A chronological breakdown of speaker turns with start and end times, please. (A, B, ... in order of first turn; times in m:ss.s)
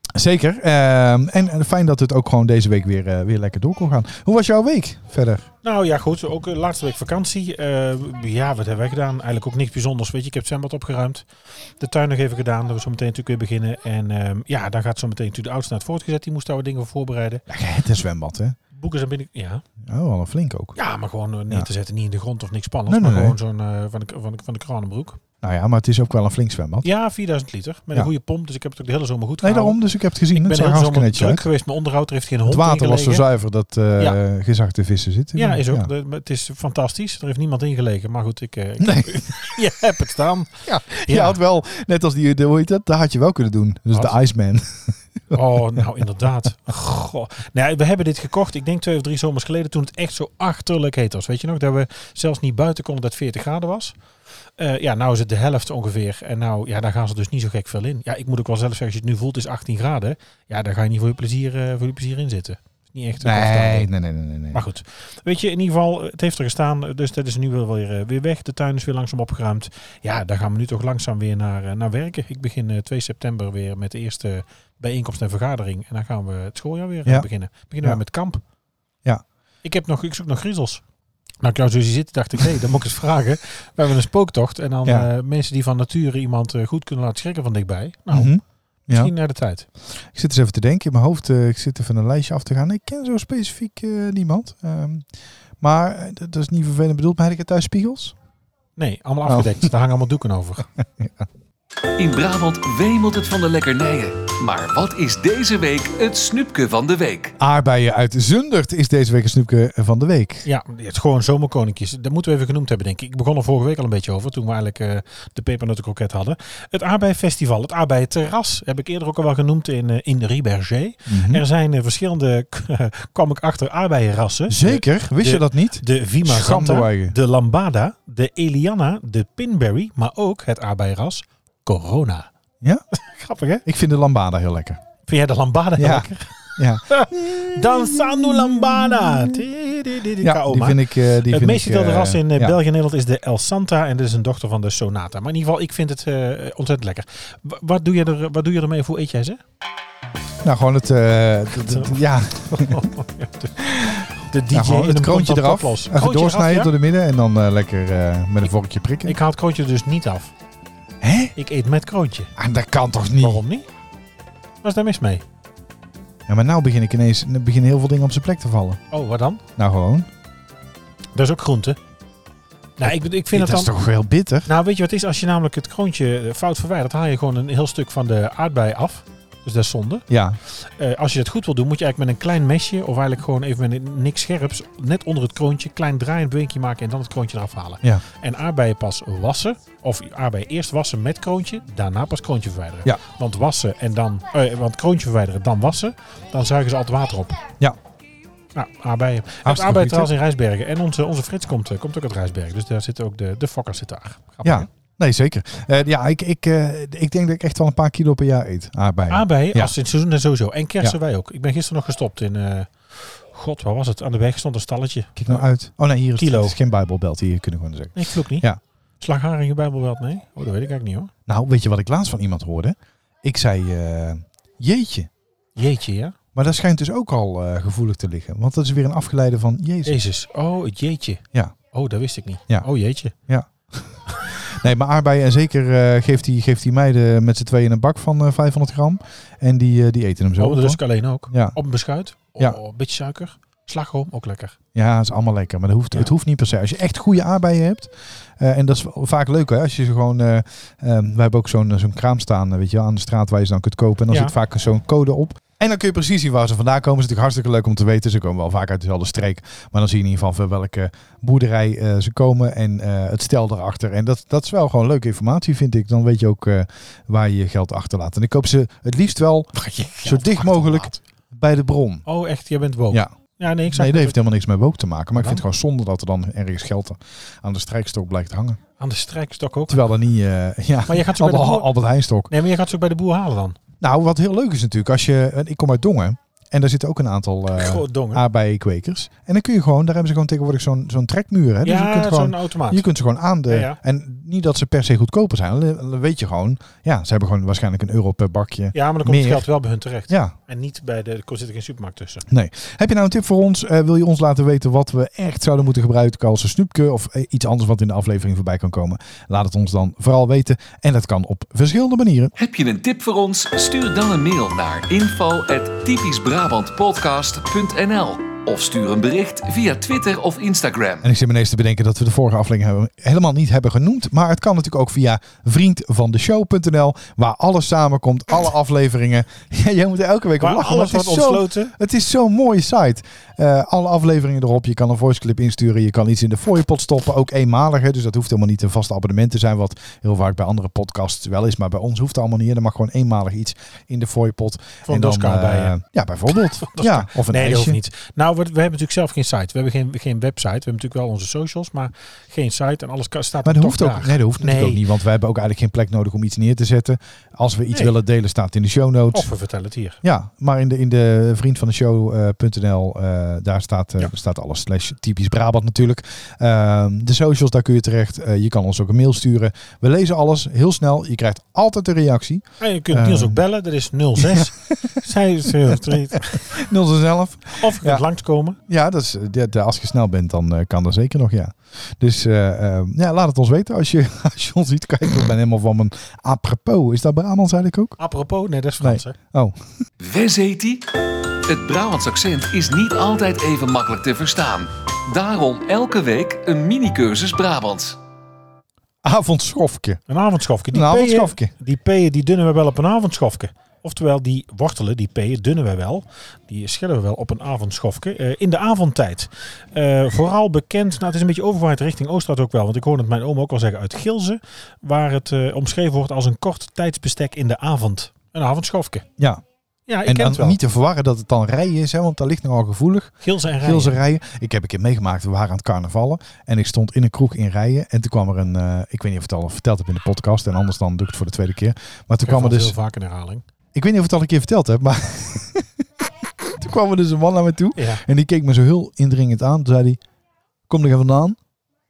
0:00.1-0:05.5 A
0:05.6-0:17.4 B
0:17.5-0:18.6 A
0:18.7-0:19.6 B
0:19.8-0:20.8 A
0:20.8-0:25.2 B
0:22.9-0:23.4 A
0:25.4-0:26.9 A
0:26.8-0:29.8 B
0:29.4-0:31.4 A
0:30.3-0:33.3 B
0:32.5-0:35.9 A
0:35.4-0:41.4 B
0:38.8-0:39.5 A
0:40.7-0:45.8 A
0:45.3-0:54.0 B
0:54.6-1:03.9 B
1:03.2-1:04.6 A
1:04.5-1:18.4 B
1:19.6-1:20.8 B
1:21.4-1:28.3 B
1:28.1-1:29.1 A
1:28.9-1:29.7 B
1:30.0-1:35.1 A
1:35.6-1:38.1 A
1:38.8-1:40.7 B
1:39.2-1:39.7 A
1:40.8-1:41.2 A
1:42.0-1:47.4 C
1:47.4-1:50.4 A
1:50.4-2:12.3 B
2:01.1-2:01.4 A
2:04.5-2:07.2 A
2:12.9-2:13.6 B
2:13.6-2:14.8 A
2:15.1-2:29.4 B
2:15.8-2:19.4 A
2:20.2-2:22.6 A
2:30.4-2:32.8 A
2:31.7-2:36.7 B
2:33.6-2:39.2 A
2:39.0-2:40.3 B
2:41.0-2:41.3 A
2:41.4-2:42.3 B
2:42.4-2:43.4 A
2:43.2-2:43.7 B
2:44.6-2:45.2 B
2:46.3-2:48.8 A
2:48.9-2:49.4 B
2:49.6-2:50.1 A
2:51.1-2:51.8 B
2:52.8-2:53.7 B
2:52.9-2:54.5 A
2:54.4-3:17.4 B
3:00.1-3:00.4 A
3:18.5-3:24.7 B
3:19.4-3:20.1 A
3:24.4-3:29.7 A
3:29.1-3:35.5 B
3:35.2-3:38.6 A
3:36.2-3:36.6 B
3:37.9-3:38.5 B
3:39.0-3:41.1 B
3:41.3-3:45.1 A
3:45.6-3:46.2 B
3:46.4-3:50.0 A
3:49.8-3:53.1 B
3:53.3-4:01.6 A
4:00.4-4:04.6 B
4:04.8-4:32.0 A
4:29.5-4:31.0 B
4:32.1-4:34.2 B
4:33.7-4:38.6 A
4:35.2-4:35.4 B
4:38.8-4:39.8 B
4:39.7-4:42.3 A
4:40.9-4:41.7 B
4:42.3-4:43.6 B
4:43.8-4:59.5 A
4:47.6-4:48.2 B
4:51.6-4:52.8 B
4:53.5-4:53.8 B
4:58.7-5:02.2 B
5:00.1-5:00.3 A
5:02.3-5:12.3 A
5:12.4-5:21.1 C
5:21.0-5:47.8 A
5:30.4-5:31.8 B
5:44.9-5:45.8 B
5:46.3-5:54.8 B
5:53.4-5:59.3 A
5:59.1-6:00.0 B
6:00.0-6:13.4 A
6:12.6-6:16.6 B
6:14.2-6:18.0 A
6:17.6-6:18.6 B
6:18.7-6:28.0 A
6:28.0-6:29.2 B
6:28.8-6:29.6 A
6:30.0-6:38.0 C
6:39.0-6:40.0 A
6:40.1-6:59.0 B
6:40.7-6:41.5 A
6:59.2-6:59.4 A
6:59.9-7:00.6 B
7:00.0-7:12.7 A
7:03.2-7:04.0 B
7:12.2-7:13.4 B
7:13.7-7:20.0 A
7:17.8-7:18.0 B
7:20.7-7:21.4 A